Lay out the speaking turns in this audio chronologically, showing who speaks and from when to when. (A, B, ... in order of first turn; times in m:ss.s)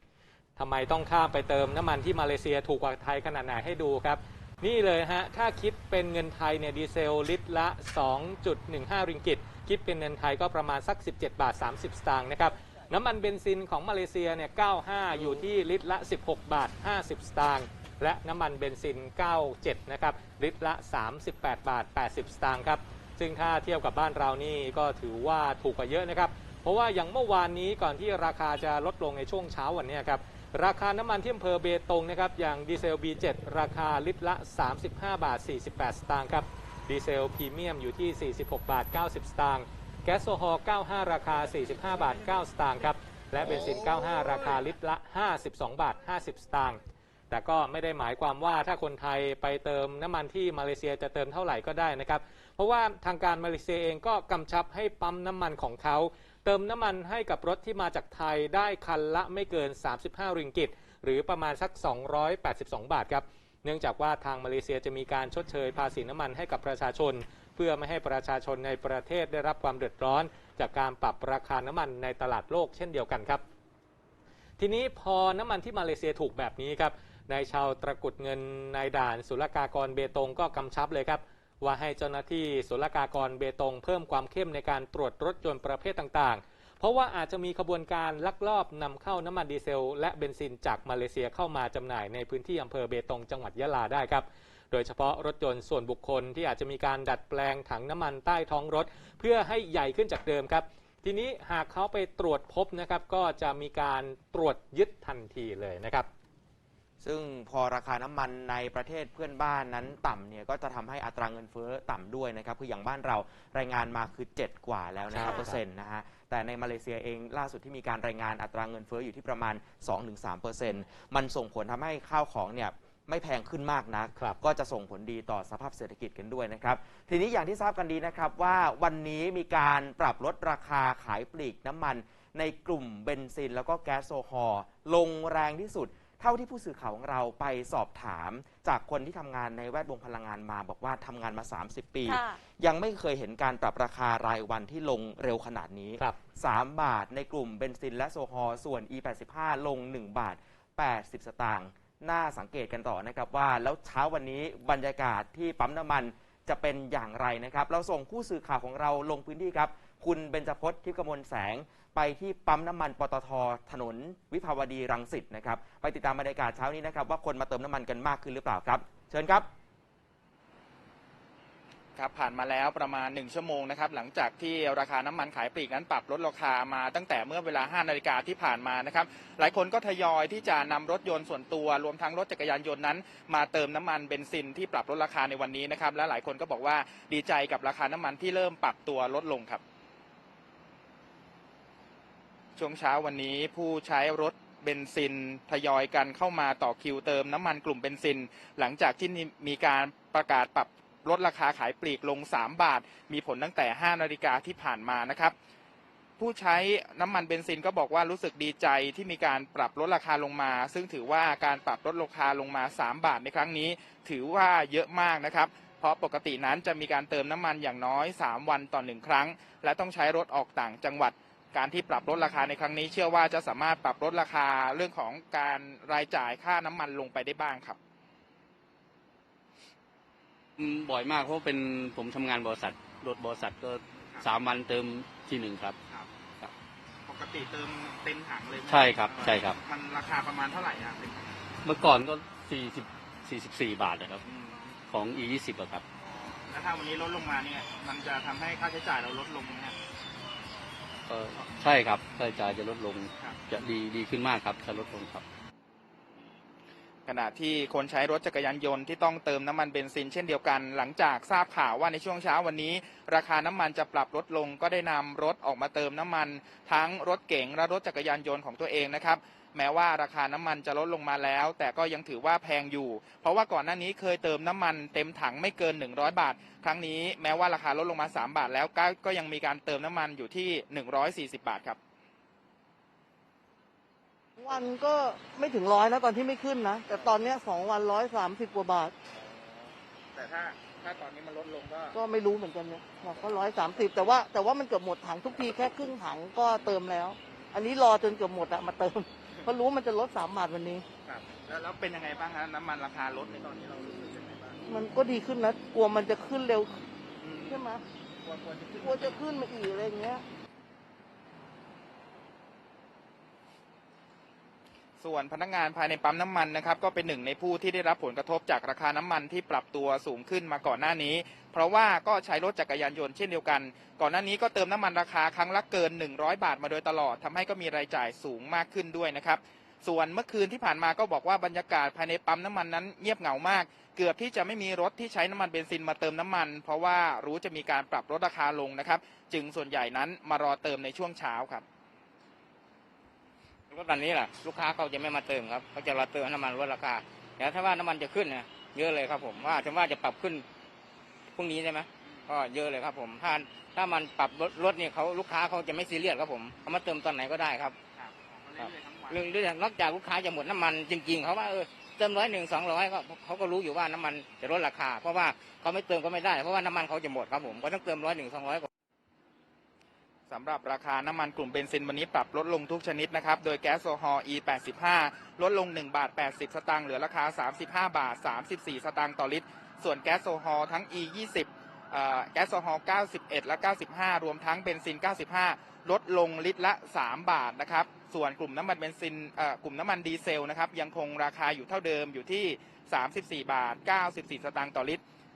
0:00.6-1:13.4 A
1:14.6-1:46.1 A
1:47.0-2:49.5 B
1:55.1-1:55.6 A
2:52.0-3:09.6 C
3:12.6-3:25.3 C
3:26.2-3:47.8 C
3:50.6-3:55.8 D
3:57.1-4:01.3 C
3:58.7-3:59.6 D
4:01.6-4:04.2 D
4:04.3-4:04.8 C
4:04.9-4:05.8 D
4:06.5-4:09.8 C
4:11.1-4:15.2 D
4:17.1-4:41.8 C
4:44.4-4:48.9 E
4:49.1-4:52.0 C
4:51.9-5:00.8 E
5:01.0-5:04.6 C
5:04.7-5:06.9 E
5:07.2-5:07.7 C
5:07.5-5:07.8 E
5:08.2-5:09.3 C
5:08.8-5:10.2 E
5:15.0-5:41.6 C
5:43.7-5:50.4 F
5:51.4-5:57.8 F
5:52.0-5:52.3 C
5:58.0-5:59.3 C
5:58.6-6:08.7 F
6:10.3-6:35.0 C